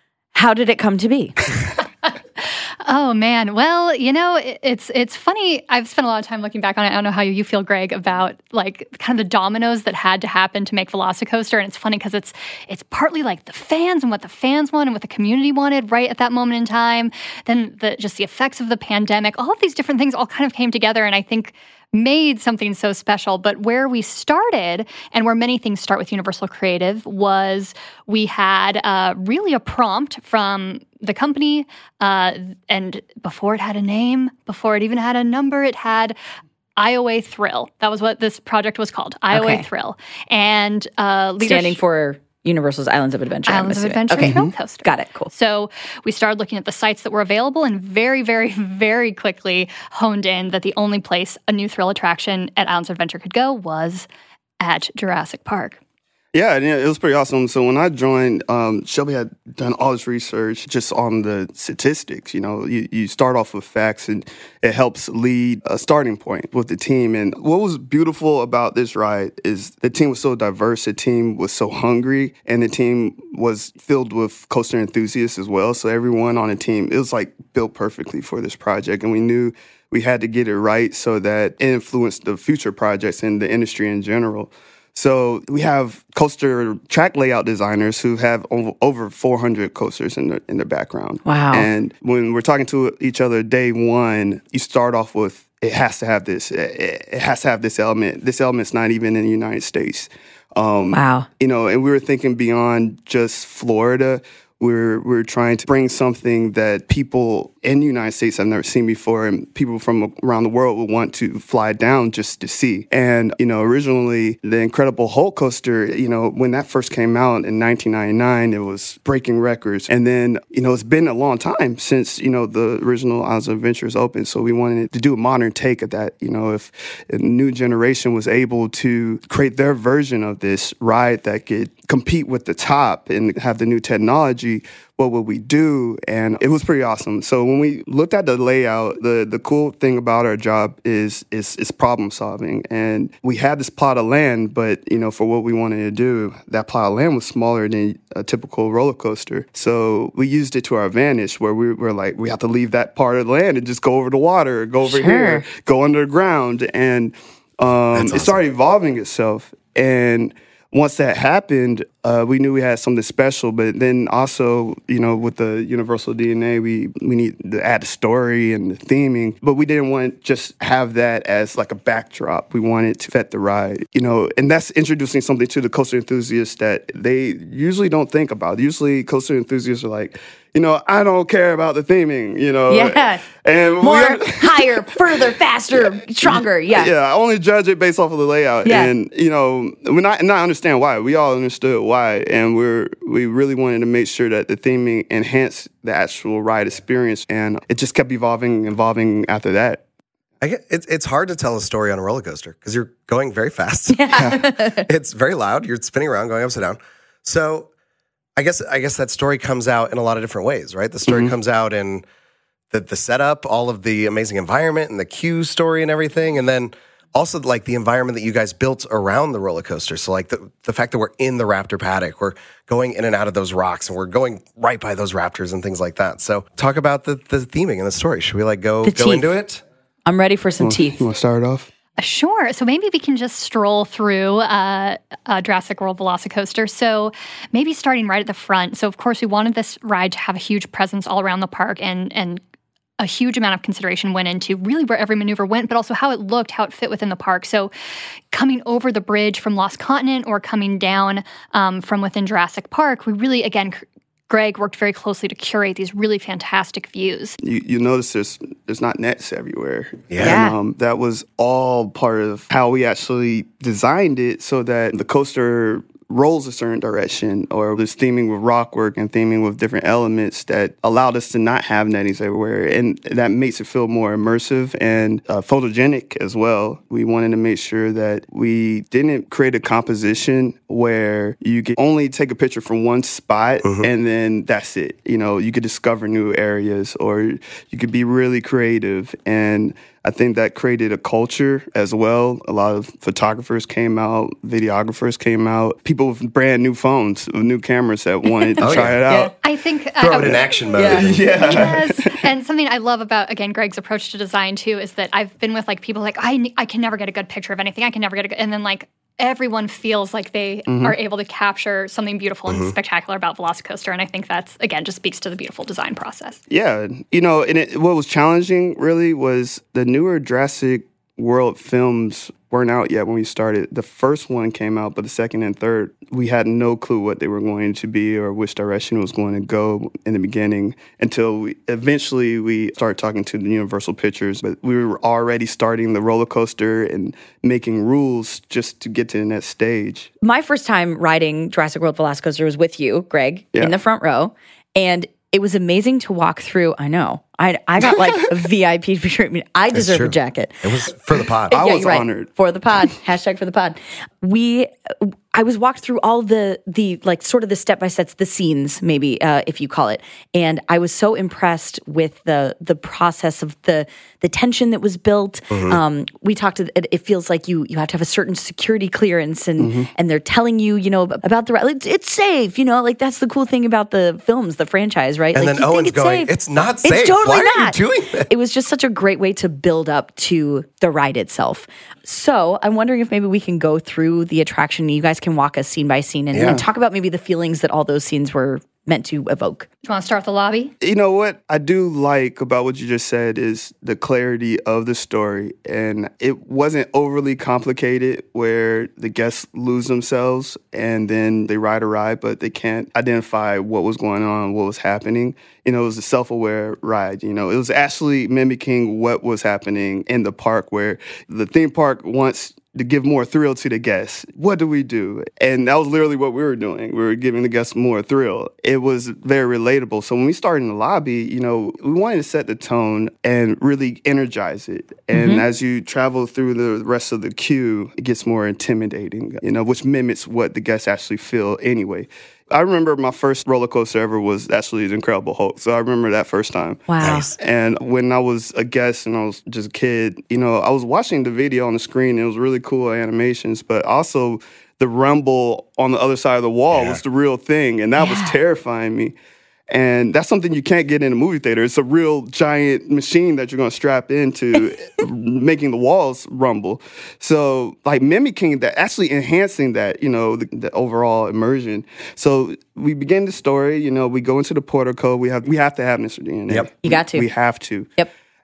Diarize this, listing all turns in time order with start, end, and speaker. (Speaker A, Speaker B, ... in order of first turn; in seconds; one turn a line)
Speaker A: 0.3-1.5
Speaker B: 2.8-36.1
Speaker B: 36.8-41.8
Speaker A: 39.3-39.6
Speaker A: 41.4-45.3
Speaker B: 43.5-54.1
Speaker C: 44.2-44.5
Speaker B: 54.6-55.8
Speaker C: 56.3-199.8
Speaker A: 91.2-91.7
Speaker A: 100.9-101.3
Speaker A: 154.8-155.4
Speaker D: 157.9-158.4
Speaker A: 182.7-183.3
Speaker A: 183.8-186.9
Speaker A: 188.6-188.9
Speaker D: 200.4-207.7
Speaker A: 203.9-204.9
Speaker C: 204.1-204.4
Speaker D: 208.4-212.0
Speaker C: 211.1-211.3
Speaker D: 212.7-229.6
Speaker A: 228.8-229.3
Speaker A: 230.1-231.0
Speaker C: 230.6-231.7
Speaker B: 232.0-242.4
Speaker B: 243.0-247.7
Speaker B: 248.3-257.4
Speaker C: 257.4-299.3
Speaker D: 260.1-260.4
Speaker A: 260.2-260.6
Speaker D: 283.6-283.9
Speaker D: 298.6-299.0
Speaker A: 298.8-299.3
Speaker B: 299.4-316.4
Speaker D: 300.0-301.6
Speaker A: 300.8-301.7
Speaker C: 300.8-302.3
Speaker C: 310.7-310.9
Speaker D: 312.5-312.7
Speaker C: 316.5-340.1
Speaker A: 340.2-350.7
Speaker D: 349.7-351.6
Speaker C: 351.5-352.3
Speaker A: 351.5-389.7
Speaker D: 365.5-365.8
Speaker C: 369.6-369.9
Speaker D: 375.3-378.3
Speaker D: 386.3-386.6
Speaker B: 389.8-390.7
Speaker C: 390.8-449.1
Speaker A: 425.1-425.4
Speaker A: 436.9-437.3
Speaker D: 437.0-437.4
Speaker D: 446.7-447.0
Speaker A: 448.0-448.4
Speaker C: 449.7-467.9
Speaker A: 466.8-467.3